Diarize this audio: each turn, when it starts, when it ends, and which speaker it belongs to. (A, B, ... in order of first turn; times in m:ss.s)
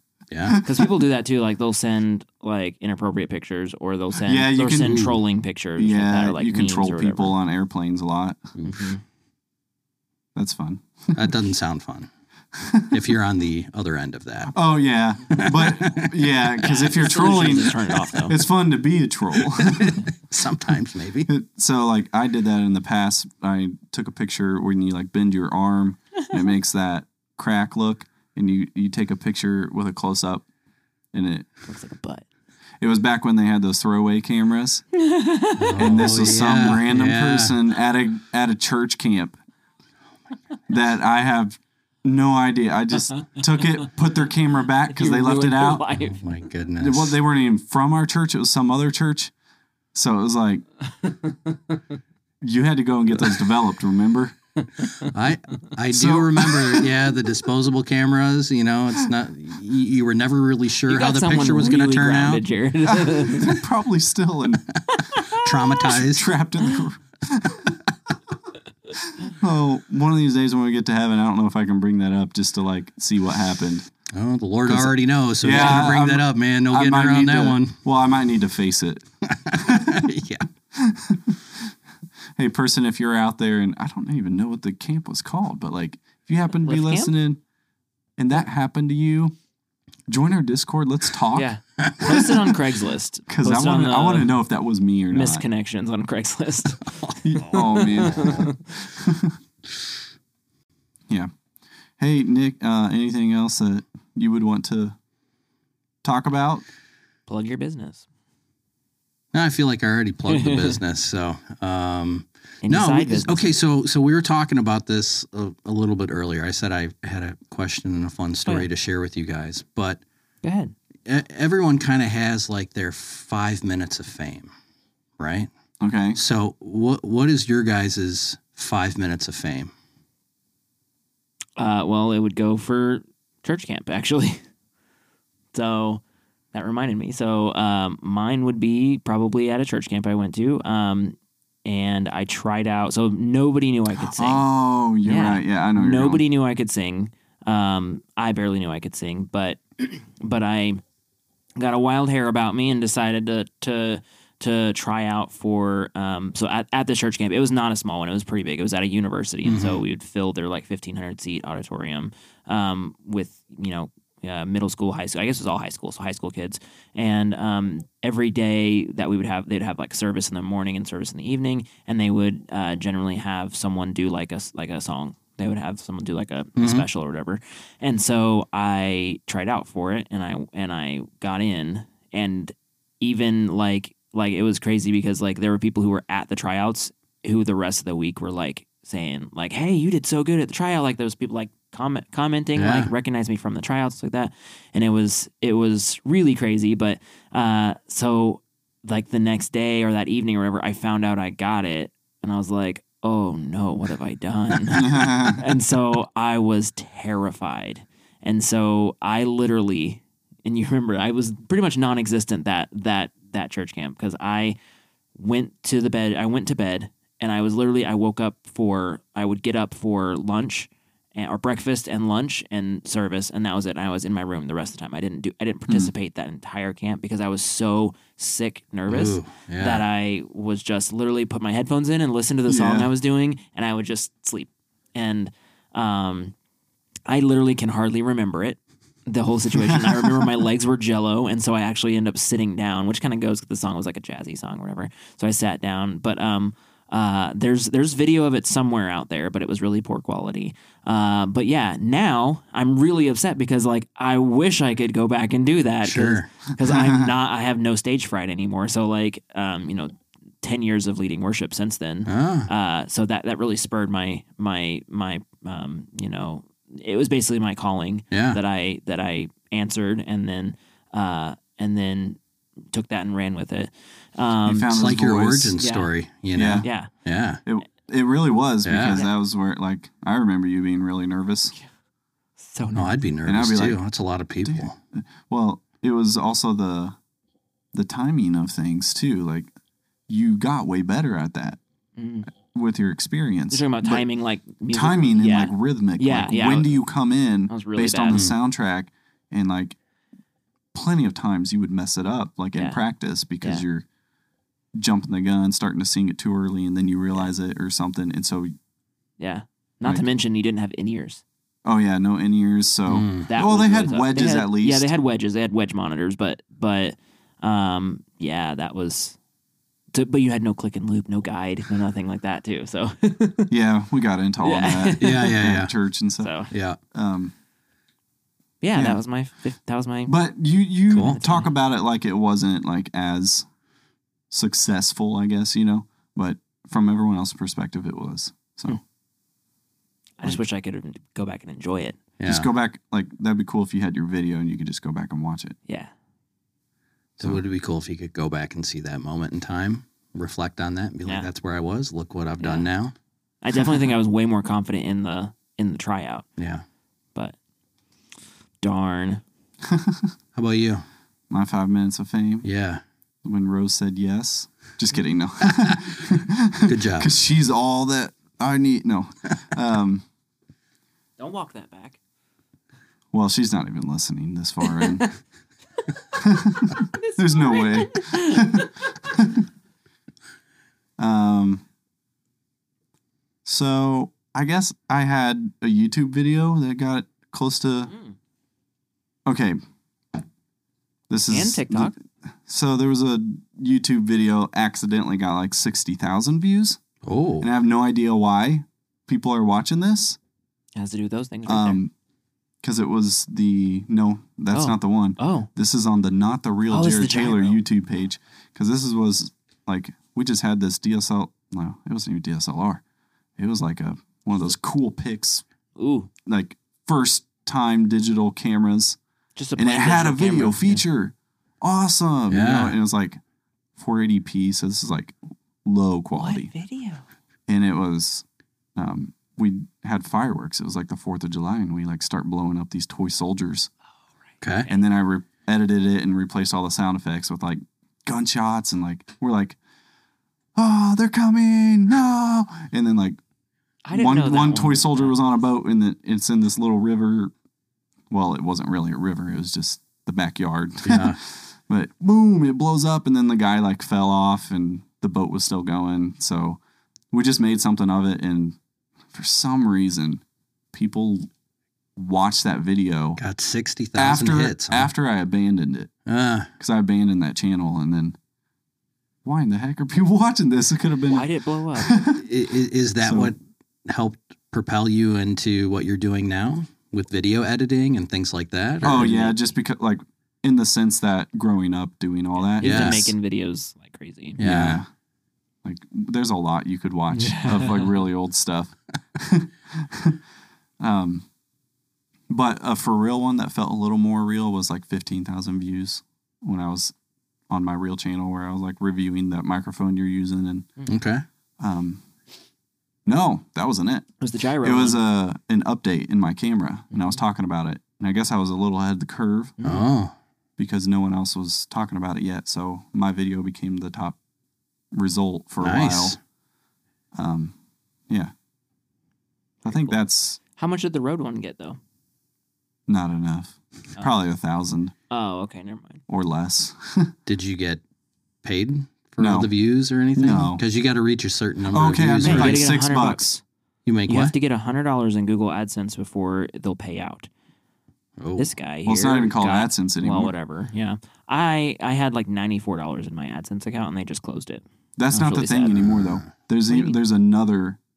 0:00.3-0:00.6 A
0:00.5-0:00.9 B
0:00.6-0:07.3 C
0:04.2-0:05.0 B
0:04.8-0:05.2 A
0:05.8-0:08.5 B
0:08.6-0:09.0 C
0:10.3-0:11.2 B
0:11.1-0:12.1 A
0:12.5-0:13.0 B
0:12.9-0:14.5 A
0:14.5-0:20.0 B
0:15.3-0:16.2 A
0:16.7-0:18.4 C
0:19.4-0:21.3 A
0:21.3-0:30.4 B
0:31.1-0:31.5 B
0:31.7-0:32.2 C
0:32.8-0:34.8 B
0:35.0-0:36.0 C
0:35.6-0:37.6 A
0:35.8-0:39.4 B
0:40.7-0:45.8 B
0:44.9-0:46.2 C
0:45.9-0:47.2 A
0:46.8-0:49.3 B
0:49.9-0:50.6 B
0:51.0-0:51.5 C
0:52.4-0:54.4 B
0:54.6-0:55.1 C
0:55.0-1:02.4 A
0:55.9-0:56.9 B
1:00.9-1:03.6 C
1:02.8-1:04.6 B
1:04.9-1:05.5 C
1:05.0-1:06.3 A
1:05.9-1:07.9 B
1:09.0-1:13.9 B
1:14.1-1:17.8 A
1:14.7-1:20.0 B
1:19.2-1:20.5 A
1:20.7-1:21.7 B
1:22.4-1:27.4 B
1:26.6-1:27.1 C
1:28.2-1:29.3 B
1:30.1-1:31.5 B
1:31.3-1:34.3 C
1:31.8-1:32.2 A
1:32.0-1:32.3 B
1:33.3-1:35.4 B
1:35.1-1:38.7 C
1:37.2-1:39.4 B
1:42.0-1:45.0 B
1:46.0-1:46.6 B
1:47.3-1:48.0 C
1:49.3-2:00.0 A
1:50.3-1:50.8 C
1:52.6-1:53.6 C
2:00.4-2:00.7 C
2:01.0-2:04.5 A
2:05.2-2:05.5 A
2:05.8-2:06.2 B
2:06.1-2:09.7 A
2:11.6-2:14.4 C
2:15.5-2:16.0 C
2:16.5-2:24.5 C
2:24.0-2:26.2 B
2:25.0-2:30.8 C
2:31.6-3:34.6 C
2:39.4-2:39.8 A
2:56.6-2:56.8 A
3:12.6-3:12.9 A
3:24.7-3:25.4 B
3:35.1-3:56.3 C
3:45.7-3:45.9 B
3:48.9-3:49.8 A
3:52.5-3:52.9 B
3:57.1-4:32.2 C
3:59.7-4:00.2 B
4:15.8-4:16.3 A
4:16.6-4:17.1 B
4:22.1-4:22.5 A
4:28.1-4:28.4 A
4:32.7-4:34.8 C
4:34.4-4:35.6 B
4:34.7-4:37.4 A
4:35.6-4:35.9 C
4:36.3-4:36.7 B
4:36.6-4:36.9 C
4:37.4-4:41.5 B
4:38.6-4:39.0 A
4:42.4-4:43.0 C
4:42.7-4:44.8 A
4:43.2-4:43.8 B
4:44.4-4:47.0 B
4:47.7-4:49.5 B
4:50.1-4:51.6 B
4:52.0-4:52.3 C
4:52.3-4:54.0 B
4:53.5-4:56.8 C
4:54.7-4:59.8 B
4:57.5-4:58.2 C
5:00.7-5:03.8 B
5:02.5-5:02.8 C
5:04.8-5:08.5 B
5:09.2-5:11.2 C
5:11.6-5:14.9 B
5:12.9-5:13.3 A
5:13.3-5:19.2 C
5:19.9-5:23.5 C
5:23.5-5:26.3 B
5:24.4-5:25.3 C
5:25.0-5:25.7 A
5:26.2-5:26.5 C
5:26.5-5:26.8 A
5:26.9-5:27.3 B
5:28.6-5:30.1 C
5:28.7-5:29.0 B
5:30.0-5:33.5 B
5:30.9-5:31.2 A
5:30.9-5:31.5 C
5:34.3-5:38.8 B
5:40.2-5:42.0 C
5:42.2-5:42.5 A
5:42.2-5:45.6 B
5:47.2-5:52.9 A
5:52.4-5:52.7 C
5:53.4-5:56.2 C
5:56.4-5:56.6 A
5:58.6-5:59.2 C
5:59.6-6:00.1 B
6:00.3-6:00.8 A
6:01.3-6:02.4 B
6:02.4-6:02.8 A
6:03.2-6:10.0 B
6:06.6-6:07.1 A
6:11.2-6:12.0 C
6:13.1-6:15.1 B
6:14.6-6:15.1 C
6:16.1-6:19.5 B
6:16.8-6:19.0 C
6:21.0-6:21.6 B
6:23.4-6:27.9 B
6:27.9-6:28.1 C
6:29.2-6:29.6 B
6:31.1-6:31.9 B
6:31.3-6:31.9 C
6:32.4-6:36.8 B
6:37.0-6:37.5 A
6:37.4-6:40.2 B
6:40.8-6:41.8 C
6:41.4-6:41.9 B
6:42.6-6:52.8 B
6:44.5-6:45.5 C
6:46.7-6:47.6 C
6:53.4-6:55.4 B
6:55.8-6:56.1 C
6:56.2-6:59.0 B
6:59.4-7:00.8 C
6:59.6-7:03.2 B
7:02.3-7:02.8 A
7:03.8-7:06.5 B
7:06.2-7:07.0 C
7:07.5-7:08.2 B
7:08.8-7:13.7 B
7:14.4-7:14.7 A
7:14.7-7:19.6 B
7:20.5-7:23.2 B
7:23.8-7:25.2 C
7:23.9-7:27.3 B
7:28.1-7:36.6 B
7:30.8-7:31.2 A
7:37.1-7:38.6 B
7:39.1-7:41.3 B
7:42.0-7:43.2 B
7:43.2-7:44.9 A
7:44.0-7:45.9 B
7:46.0-7:46.5 A
7:46.6-7:48.2 B
7:49.2-7:52.2 B
7:51.1-7:51.9 C
7:52.2-7:59.2 A
7:53.0-7:53.3 B
7:58.8-8:03.1 B
7:58.9-7:59.4 C
8:02.5-8:04.4 C
8:02.6-8:03.1 A
8:04.4-8:04.8 A
8:04.4-8:04.9 B
8:05.6-8:10.2 B
8:07.1-8:07.9 C
8:10.8-8:11.3 B
8:12.3-8:16.9 B
8:17.5-8:20.7 B
8:20.9-8:21.2 A
8:21.6-8:22.0 B
8:23.0-8:24.1 B
8:24.2-8:25.0 C
8:24.6-8:29.6 B
8:26.9-8:27.2 C
8:29.6-8:29.8 C
8:29.6-8:30.1 A
8:30.6-8:34.2 B
8:34.9-8:36.2 B
8:35.6-8:36.2 A
8:37.2-8:37.5 B
8:39.6-8:40.4 B
8:39.6-8:40.0 C
8:40.6-8:41.8 C
8:42.9-8:44.9 B
8:45.1-8:46.0 C
8:46.1-8:47.1 B
8:47.2-8:47.8 A
8:48.4-8:52.6 A
8:49.2-8:49.5 B
8:50.1-8:50.6 B
8:51.7-8:53.4 B
8:52.2-8:53.4 C
8:53.8-8:54.3 A
8:54.1-8:57.3 C
8:58.2-8:58.5 A
8:58.4-9:05.9 C
8:58.8-9:00.3 B
9:05.0-9:07.8 B
9:05.7-9:06.3 A
9:06.7-9:07.0 C